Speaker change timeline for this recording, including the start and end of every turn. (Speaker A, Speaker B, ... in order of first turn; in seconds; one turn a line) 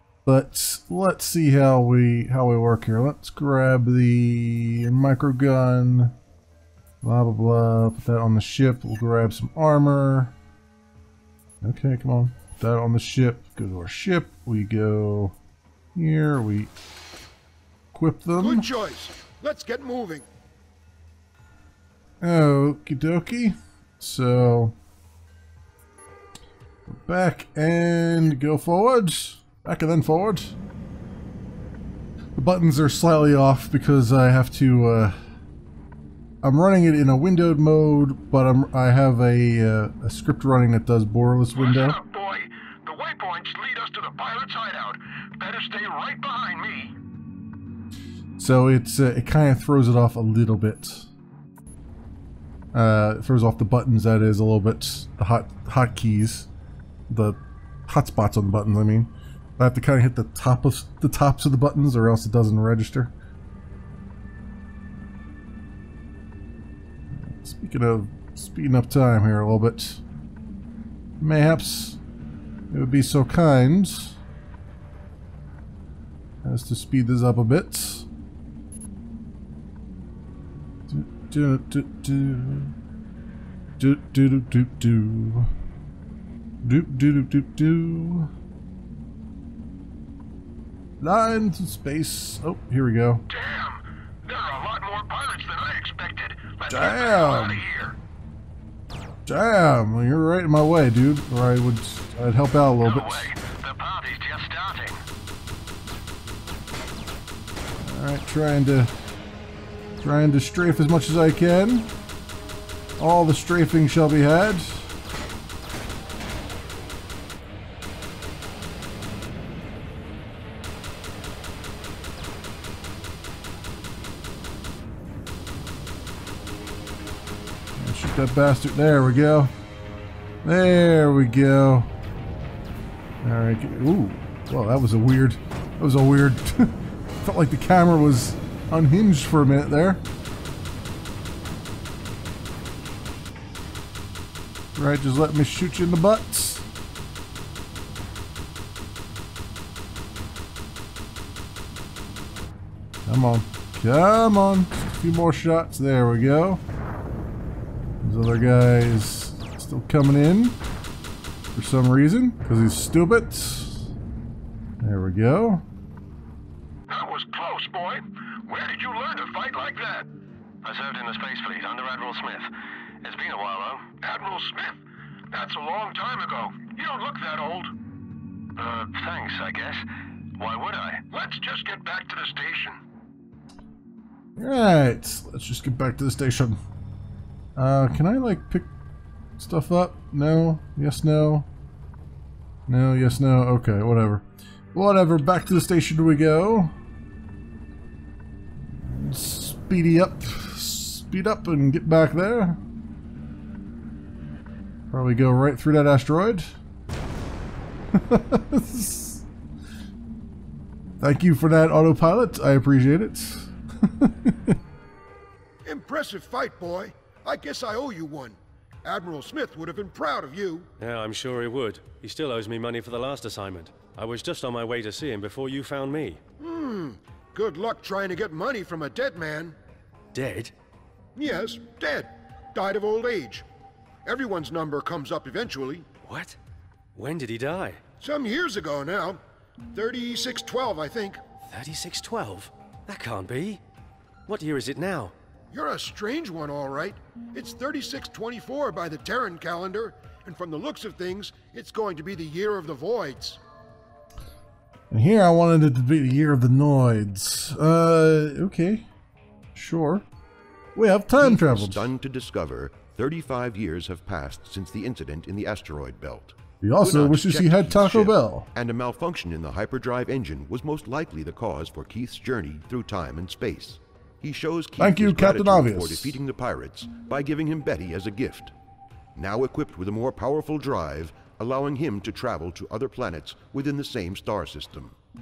Speaker A: 0.2-6.1
Speaker A: 7.0-10.3
Speaker A: 11.6-15.3
Speaker A: 15.9-16.7
Speaker A: 17.9-18.6
Speaker B: 18.4-20.2
Speaker A: 22.2-24.8
Speaker A: 26.9-30.6
Speaker A: 32.4-35.2
Speaker A: 36.4-42.0
Speaker C: 41.5-46.9
Speaker A: 48.4-51.1
Speaker A: 52.7-56.5
Speaker A: 57.1-63.1
Speaker A: 67.1-70.0
Speaker A: 71.2-72.0
Speaker A: 72.7-74.2
Speaker A: 76.4-78.1
Speaker A: 80.9-82.7
Speaker A: 83.8-85.5
Speaker A: 86.6-88.3
Speaker A: 91.0-93.2
Speaker C: 93.3-98.0
Speaker A: 96.7-97.6
Speaker A: 99.2-103.3
Speaker C: 102.8-105.0
Speaker A: 107.8-108.9
Speaker A: 110.0-111.9
Speaker A: 113.0-114.9
Speaker A: 127.8-129.5
Speaker A: 130.4-131.9
Speaker A: 133.2-140.0
Speaker A: 144.8-146.6
Speaker A: 153.1-156.6
Speaker A: 158.0-160.6
Speaker A: 161.6-163.8
Speaker A: 164.8-165.6
Speaker C: 166.9-170.1
Speaker C: 170.6-172.5
Speaker C: 173.0-174.7
Speaker C: 175.3-177.7
Speaker C: 178.6-179.8
Speaker C: 180.4-182.8
Speaker A: 184.4-186.6
Speaker A: 187.6-188.7
Speaker A: 189.4-191.5
Speaker A: 192.7-196.7
Speaker A: 198.8-202.6
Speaker A: 204.9-206.5
Speaker A: 207.9-209.2
Speaker A: 211.0-214.6
Speaker B: 215.6-220.7
Speaker D: 220.8-226.2
Speaker B: 226.4-229.6
Speaker D: 230.1-230.5
Speaker B: 231.2-233.4
Speaker B: 234.1-235.9
Speaker D: 236.1-236.4
Speaker D: 236.9-237.8
Speaker B: 238.0-239.2
Speaker B: 239.7-241.2
Speaker D: 241.5-243.6
Speaker D: 244.3-245.1
Speaker B: 245.5-253.4
Speaker A: 254.9-258.9
Speaker A: 259.6-260.1
Speaker A: 260.8-261.9
Speaker E: 261.2-278.5
Speaker A: 266.6-268.5
Speaker A: 274.8-276.2
Speaker E: 279.1-284.9